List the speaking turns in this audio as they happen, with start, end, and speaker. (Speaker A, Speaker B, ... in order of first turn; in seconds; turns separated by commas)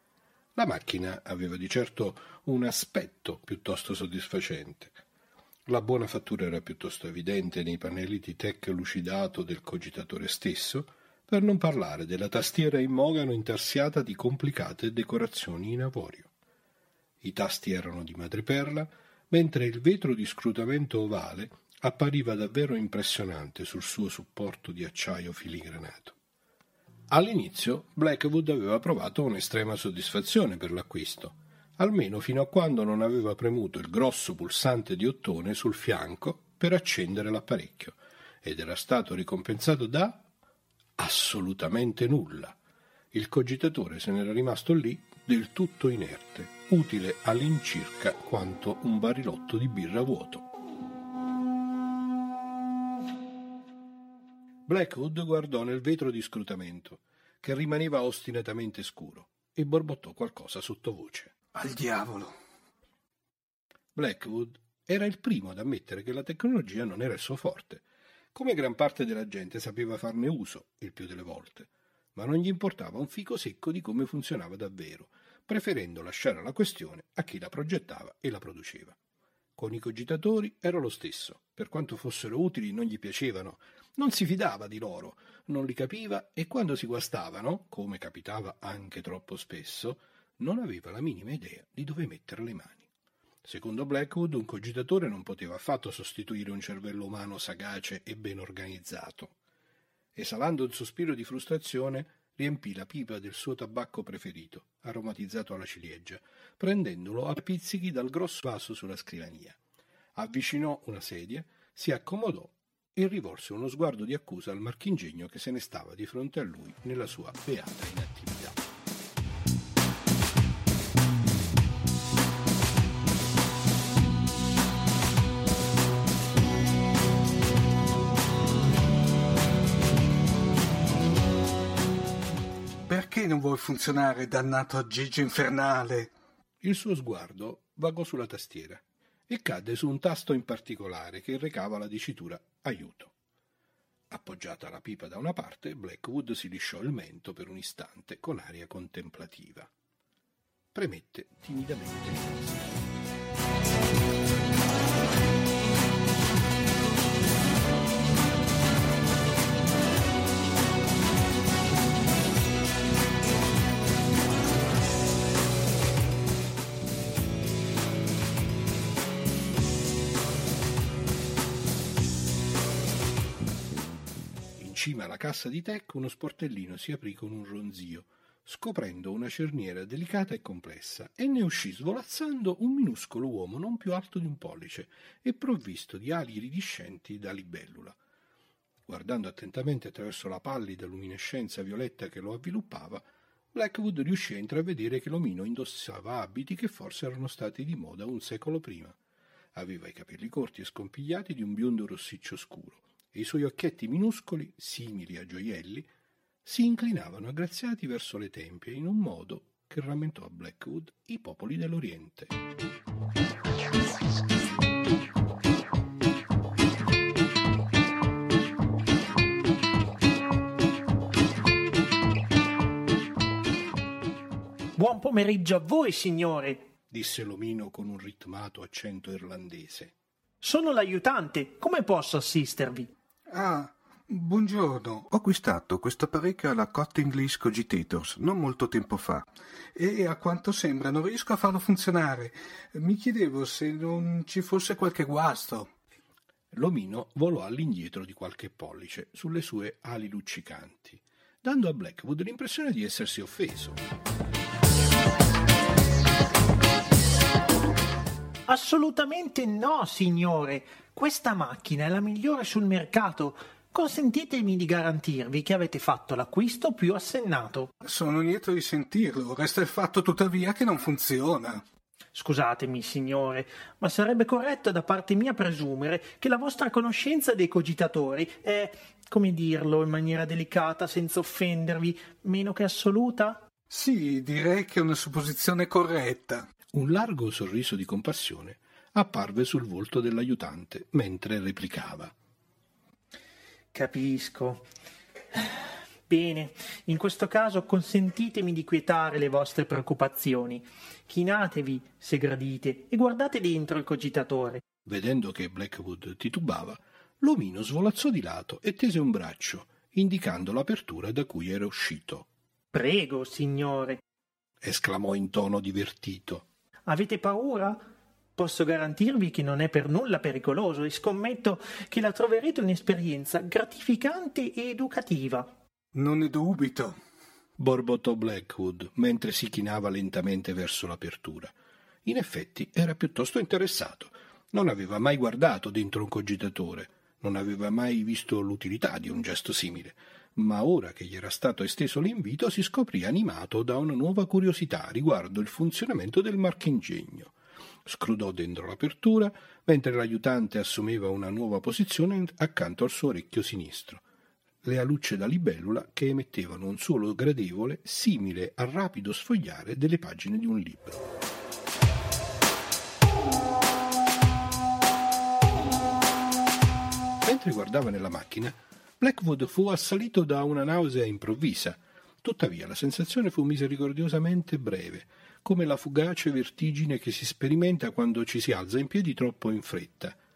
Speaker A: 0.6-5.0, Speaker A: 5.7-16.3, Speaker A: 17.2-26.1, Speaker A: 27.1-40.2, Speaker A: 41.0-42.6, Speaker A: 43.1-50.5, Speaker A: 54.7-61.3, Speaker B: 61.5-62.3, Speaker A: 64.0-79.0, Speaker A: 79.6-92.9, Speaker A: 93.4-99.3, Speaker A: 100.2-109.6, Speaker A: 110.2-118.6, Speaker B: 132.8-136.1, Speaker A: 136.6-143.1, Speaker A: 144.1-149.7, Speaker A: 150.7-153.1, Speaker A: 174.6-188.0, Speaker A: 188.9-199.0, Speaker A: 199.5-205.9, Speaker A: 206.4-212.3, Speaker C: 224.8-226.7, Speaker A: 226.9-229.9, Speaker C: 230.4-232.9, Speaker B: 233.3-245.7, Speaker A: 246.5-253.8, Speaker C: 258.5-267.7, Speaker B: 267.8-271.6, Speaker C: 272.1-283.4, Speaker B: 283.7-286.5, Speaker A: 286.7-292.1, Speaker C: 293.7-294.6, Speaker C: 295.3-304.6, Speaker A: 304.9-312.3, Speaker C: 312.7-314.0, Speaker A: 314.6-316.4, Speaker C: 316.9-317.8, Speaker C: 318.4-325.5, Speaker B: 325.9-327.0, Speaker A: 327.6-331.5, Speaker A: 332.1-347.3, Speaker A: 347.9-354.0, Speaker A: 354.6-361.1, Speaker A: 367.2-380.2